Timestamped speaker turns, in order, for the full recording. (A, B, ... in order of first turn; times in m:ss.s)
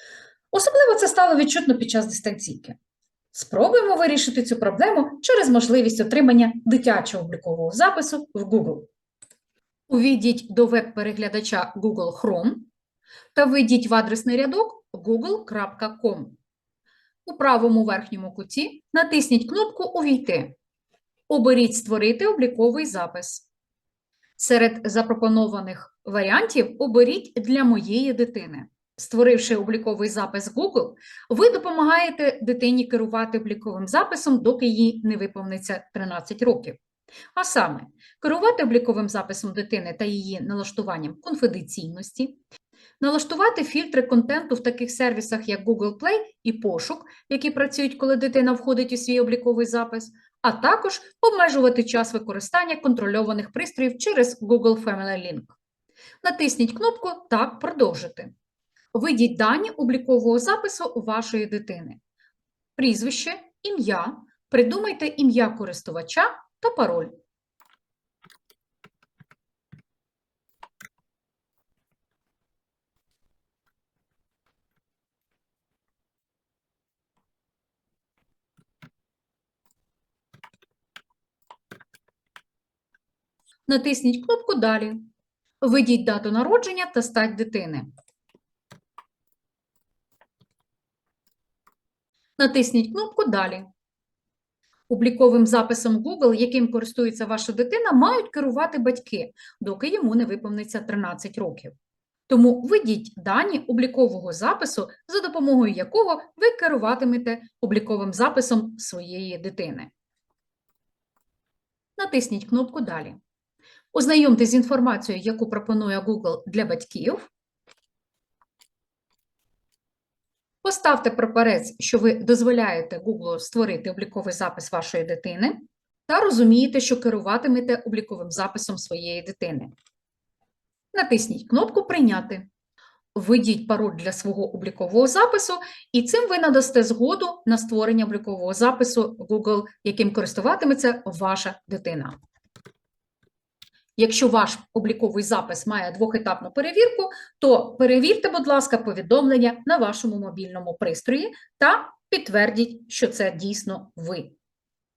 0:00.5-0:02.8 A
0:03.3-0:08.9 A
0:09.9-0:12.7 A
0:13.3-0:16.4 A
0:17.2-0:20.6 A
0:21.3-0:23.5 A
0:24.4-0:36.8 A
0:37.4-0:42.4 A
0:43.0-0:55.6 A
0:56.2-0:58.3 A
0:58.9-1:02.0 A
1:02.8-1:07.2 A
1:23.7-1:25.1 A
1:25.6-1:27.9 A
1:32.4-1:33.7 A
1:34.9-1:41.7 A
1:42.3-1:49.9 A
1:52.0-1:53.2 A
1:53.9-1:57.3 A
2:00.6-2:09.7 A
2:10.9-2:12.5 A
2:13.2-2:22.2 A
2:24.0-2:34.3 A